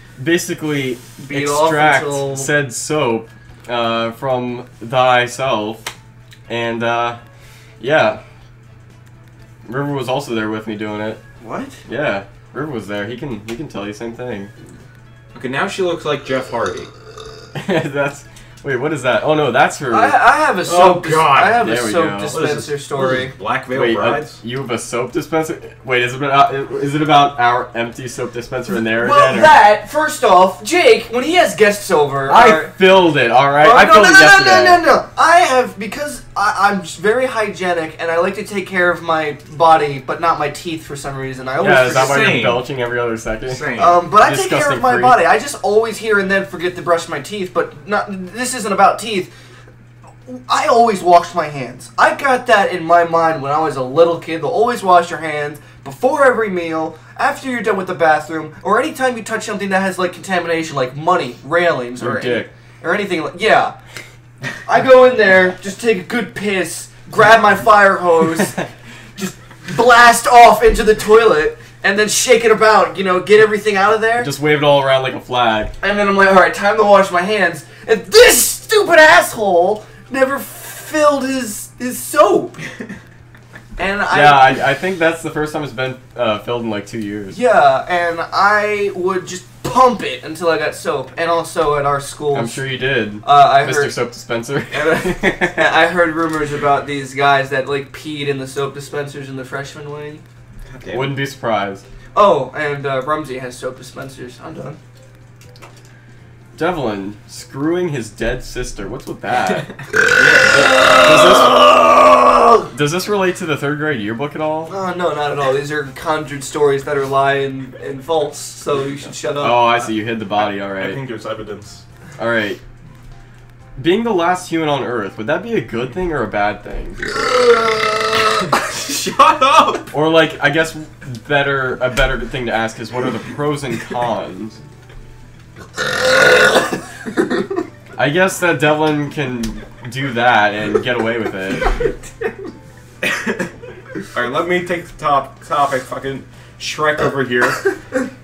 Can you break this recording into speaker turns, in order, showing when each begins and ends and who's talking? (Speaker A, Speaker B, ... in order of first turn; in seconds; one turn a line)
Speaker A: 0.2-5.9
Speaker B: 1.2-2.5
Speaker A: 6.5-7.2
Speaker A: 7.8-8.2
Speaker A: 9.7-11.2
Speaker B: 11.4-11.8
Speaker A: 11.9-14.5
Speaker C: 15.3-16.9
Speaker A: 17.6-20.2
Speaker B: 19.9-23.3
Speaker C: 20.6-21.6
Speaker A: 21.6-22.4
Speaker C: 22.3-24.4
Speaker A: 23.7-29.6
Speaker B: 28.8-32.7
Speaker A: 32.3-34.8
Speaker B: 33.6-42.3
Speaker A: 41.6-43.6
Speaker C: 41.7-42.6
Speaker C: 43.5-44.0
Speaker B: 43.8-49.3
Speaker A: 44.2-45.2
Speaker B: 50.3-63.8
Speaker A: 62.0-62.5
Speaker B: 64.7-68.6
Speaker B: 69.2-74.3
Speaker A: 74.2-75.7
Speaker B: 75.8-82.6
Speaker B: 83.8-84.6
Speaker A: 84.1-87.4
Speaker B: 87.3-92.6
Speaker A: 92.3-95.5
Speaker B: 93.2-94.0
Speaker B: 94.7-100.2
Speaker C: 100.7-101.2
Speaker A: 100.9-101.8
Speaker B: 102.2-104.8
Speaker A: 106.6-109.7
Speaker C: 110.1-111.1
Speaker A: 110.5-111.6
Speaker B: 110.6-112.6
Speaker A: 112.7-114.7
Speaker B: 114.7-119.8
Speaker A: 119.4-121.0
Speaker C: 120.8-121.8
Speaker A: 122.2-122.6
Speaker A: 123.8-127.1
Speaker C: 128.3-129.9
Speaker A: 129.9-134.6
Speaker A: 138.0-141.7
Speaker C: 143.0-143.5
Speaker C: 144.1-147.8